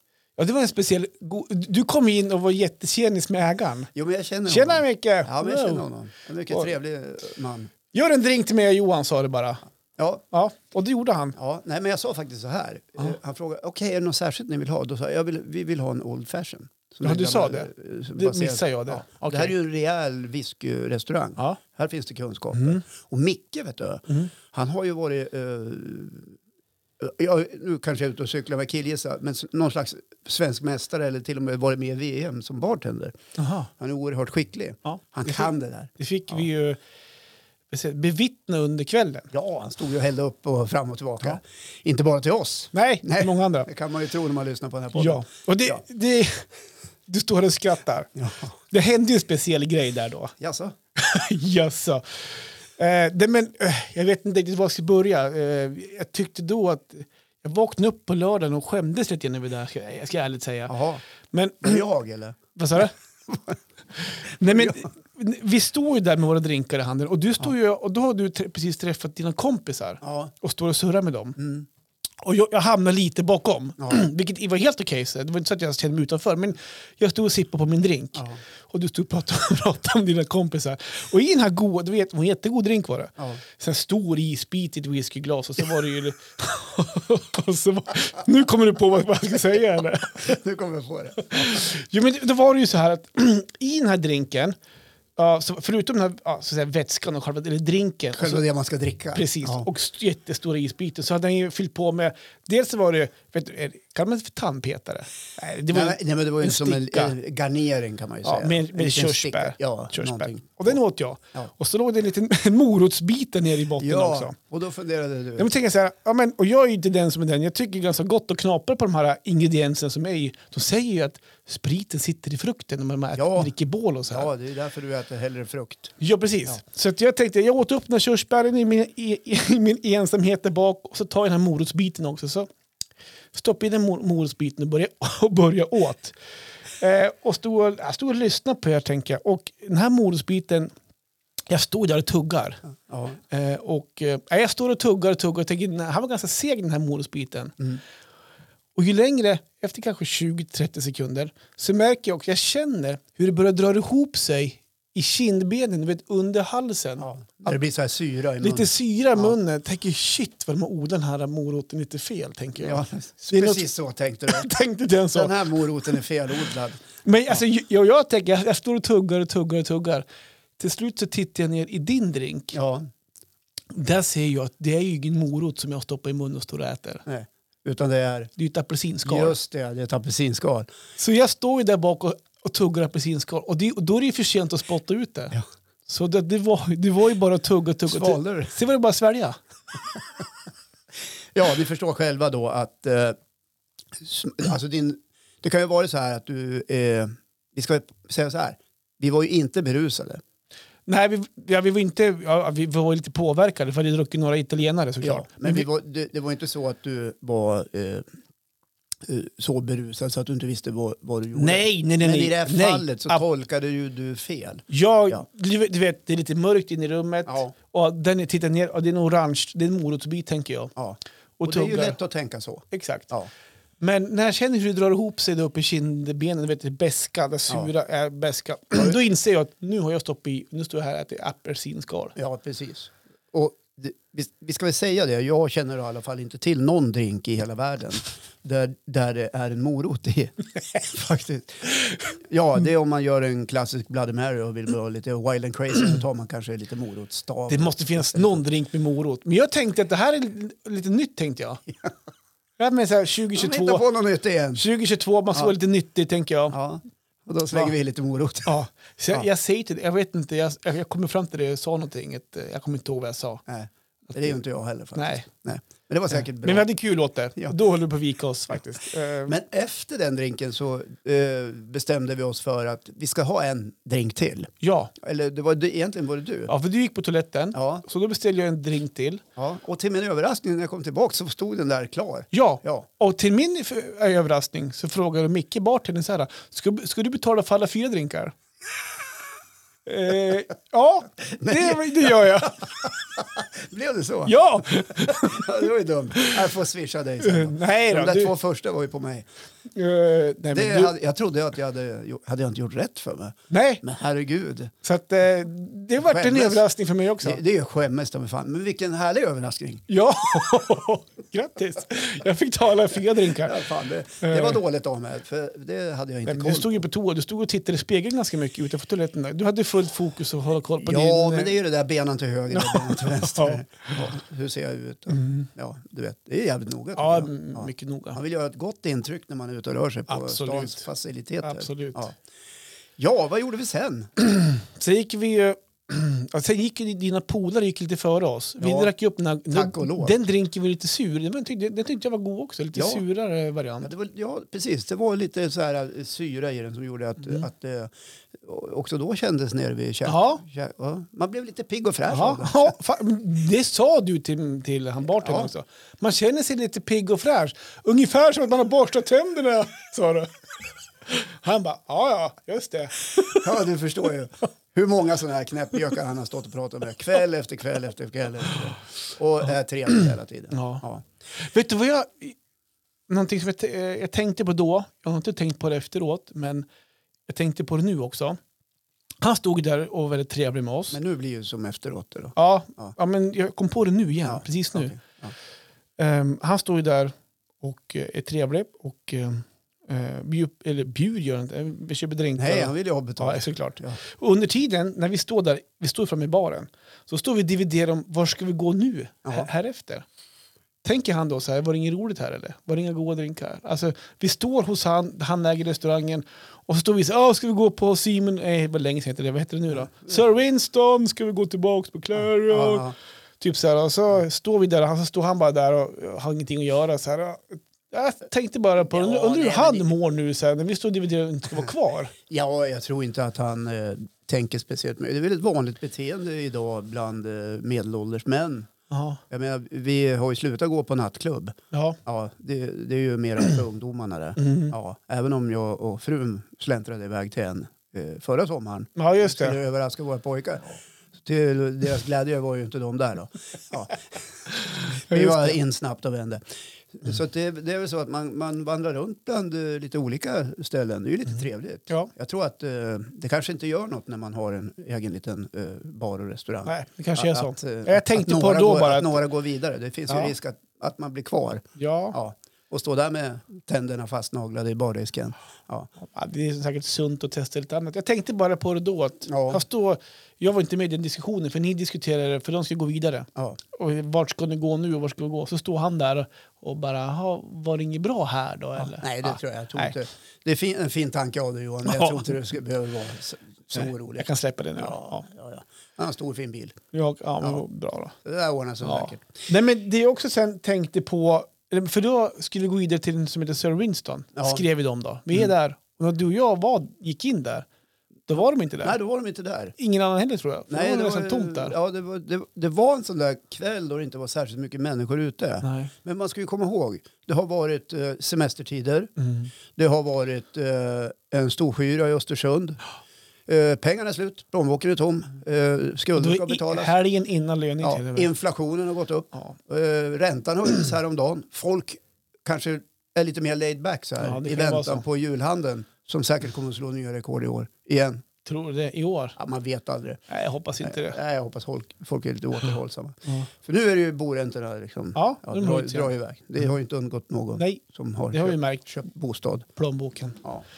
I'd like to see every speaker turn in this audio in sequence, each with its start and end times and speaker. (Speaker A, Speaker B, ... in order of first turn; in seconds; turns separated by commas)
Speaker A: 0.4-3.9, Speaker B: 3.9-7.7, Speaker A: 4.5-5.8, Speaker A: 7.9-9.6, Speaker B: 10.0-10.2, Speaker A: 10.3-11.3, Speaker B: 11.3-26.4, Speaker A: 17.0-19.5, Speaker A: 22.5-22.8, Speaker B: 27.0-33.1, Speaker A: 33.4-33.7, Speaker B: 33.8-36.4, Speaker A: 34.9-36.8, Speaker A: 37.7-39.3, Speaker B: 39.3-45.8, Speaker A: 42.7-43.7, Speaker A: 44.9-46.4, Speaker A: 47.1-48.1, Speaker B: 48.1-48.5, Speaker A: 48.7-50.3, Speaker B: 50.4-50.7, Speaker A: 51.0-60.7, Speaker B: 60.7-61.0, Speaker A: 61.3-61.8, Speaker B: 61.6-63.6, Speaker A: 62.5-62.9, Speaker A: 64.0-71.4, Speaker B: 64.4-64.8, Speaker B: 70.0-70.3, Speaker B: 71.4-71.7, Speaker A: 72.2-90.4, Speaker B: 73.8-74.0, Speaker B: 78.1-78.4, Speaker B: 90.1-91.5, Speaker A: 91.3-94.5, Speaker A: 95.2-98.4, Speaker B: 98.1-99.7, Speaker A: 99.1-107.1, Speaker B: 105.7-110.8, Speaker A: 108.2-114.3, Speaker B: 113.8-115.5, Speaker A: 115.4-124.3, Speaker B: 123.1-123.5, Speaker B: 124.1-125.9, Speaker A: 126.0-132.5, Speaker A: 133.3-136.2, Speaker A: 136.8-140.7, Speaker A: 141.5-142.6, Speaker B: 142.9-143.2, Speaker A: 143.3-147.5, Speaker A: 148.8-157.1, Speaker B: 157.0-159.3, Speaker A: 158.4-163.6, Speaker B: 162.6-164.5, Speaker A: 164.3-165.3, Speaker B: 165.1-167.4, Speaker A: 167.0-170.0, Speaker A: 170.6-172.5, Speaker B: 172.5-172.9, Speaker A: 173.7-177.0, Speaker B: 177.1-178.3, Speaker A: 178.4-179.3, Speaker B: 179.0-180.7, Speaker A: 181.0-189.4, Speaker B: 187.8-188.5, Speaker B: 191.3-193.2, Speaker B: 194.0-200.2, Speaker A: 200.9-205.7, Speaker B: 205.0-208.0, Speaker B: 209.1-215.2, Speaker A: 211.3-213.2, Speaker A: 214.7-220.7, Speaker B: 217.3-217.5, Speaker B: 220.8-223.3, Speaker A: 221.4-222.0, Speaker A: 222.7-223.1, Speaker A: 223.8-232.1, Speaker B: 232.2-248.4, Speaker A: 247.5-251.6, Speaker A: 252.6-253.8, Speaker B: 253.3-254.6, Speaker A: 254.5-256.6, Speaker B: 256.5-258.6, Speaker A: 258.4-263.4, Speaker B: 263.5-266.7, Speaker A: 264.9-265.2, Speaker A: 266.1-269.4, Speaker B: 269.2-276.5, Speaker A: 274.6-274.9, Speaker A: 276.5-279.2, Speaker B: 277.5-277.8, Speaker B: 279.4-282.9, Speaker A: 282.3-288.3, Speaker A: 289.9-292.6, Speaker B: 291.3-299.3, Speaker A: 294.2-296.4, Speaker A: 297.2-298.3, Speaker A: 299.7-300.9, Speaker B: 300.5-304.7, Speaker A: 303.5-303.8, Speaker A: 304.8-307.4, Speaker B: 306.0-306.6, Speaker B: 307.2-309.9, Speaker A: 309.9-313.6, Speaker B: 313.4-316.8, Speaker A: 314.2-314.6, Speaker A: 316.2-321.6, Speaker B: 320.8-332.1, Speaker A: 322.5-324.1, Speaker A: 325.1-325.5, Speaker A: 326.9-328.2, Speaker A: 330.1-330.9, Speaker A: 331.4-332.0, Speaker B: 333.0-334.1, Speaker A: 334.2-343.9, Speaker B: 338.6-338.9, Speaker B: 339.5-340.2, Speaker B: 342.7-343.0, Speaker B: 343.8-352.7, Speaker A: 350.1-350.4, Speaker A: 352.1-360.4, Speaker B: 355.2-355.5, Speaker A: 361.0-363.5, Speaker B: 363.2-371.0, Speaker A: 370.5-370.8, Speaker A: 371.4-372.4, Speaker A: 373.1-376.7, Speaker A: 377.3-378.4, Speaker A: 379.2-381.0, Speaker B: 380.9-382.9, Speaker A: 382.4-384.9, Speaker B: 384.2-385.3, Speaker A: 386.0-400.1, Speaker B: 392.4-394.0, Speaker A: 400.8-412.9, Speaker B: 412.5-412.9, Speaker A: 413.4-422.1, Speaker B: 418.8-419.9, Speaker B: 422.3-428.7, Speaker A: 428.9-429.2, Speaker B: 429.3-444.0, Speaker A: 431.7-432.0, Speaker A: 434.4-434.7, Speaker A: 438.9-439.6, Speaker B: 444.8-446.4, Speaker A: 445.1-445.6, Speaker B: 446.9-465.9, Speaker A: 456.6-459.2, Speaker A: 460.1-460.3, Speaker A: 461.8-462.2, Speaker A: 466.0-479.9, Speaker B: 469.3-469.6, Speaker B: 478.8-486.8, Speaker A: 481.8-482.2, Speaker A: 483.7-485.2, Speaker A: 486.9-488.1, Speaker B: 488.2-489.4, Speaker A: 488.8-497.7, Speaker B: 494.4-494.6, Speaker A: 498.3-499.0, Speaker B: 498.8-499.7, Speaker A: 499.8-501.8, Speaker B: 500.7-509.1, Speaker A: 505.6-505.9, Speaker A: 509.2-509.5, Speaker B: 509.7-512.8, Speaker B: 513.5-516.9, Speaker A: 516.1-518.3, Speaker B: 517.8-528.2, Speaker A: 524.2-525.0, Speaker A: 528.4-529.4, Speaker B: 529.4-530.2, Speaker A: 530.3-531.2, Speaker B: 530.8-539.7, Speaker A: 535.1-536.1, Speaker A: 538.3-538.8, Speaker A: 539.8-540.4